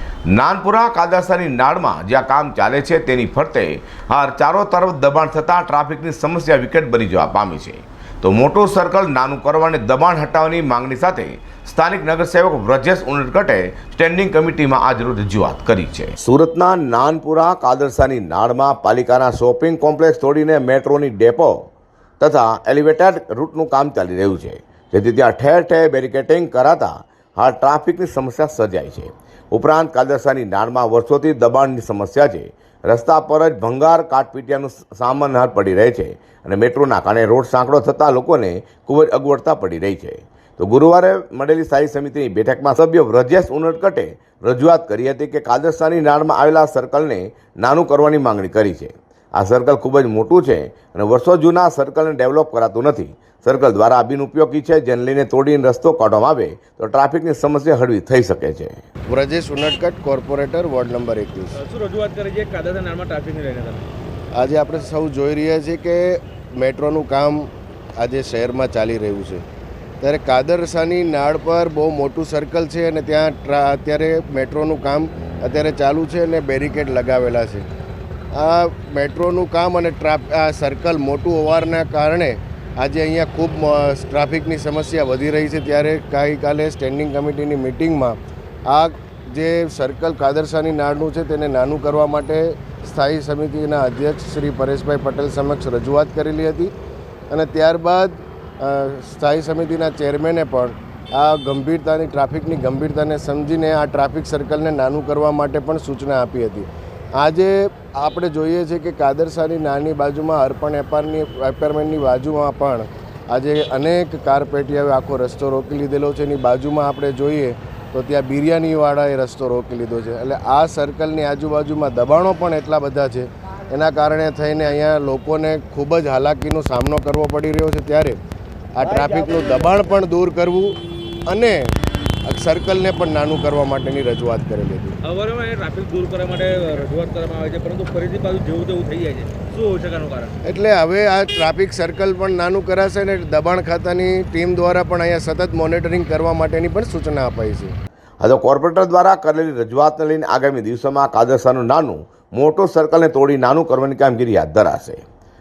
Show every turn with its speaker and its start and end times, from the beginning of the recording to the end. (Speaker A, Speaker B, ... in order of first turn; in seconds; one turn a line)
Speaker A: 0.3-21.6
Speaker A: 22.2-58.8
Speaker B: 59.1-61.6
Speaker C: 61.5-63.9
Speaker B: 64.3-69.4
Speaker B: 70.0-77.7
Speaker B: 78.3-88.2
Speaker B: 88.7-96.7
Speaker B: 97.3-128.2
Speaker B: 128.8-130.8
Speaker C: 128.8-129.9
Speaker B: 131.3-131.7
Speaker B: 132.2-135.0
Speaker C: 135.0-140.3
Speaker B: 140.4-147.7
Speaker A: 148.2-155.0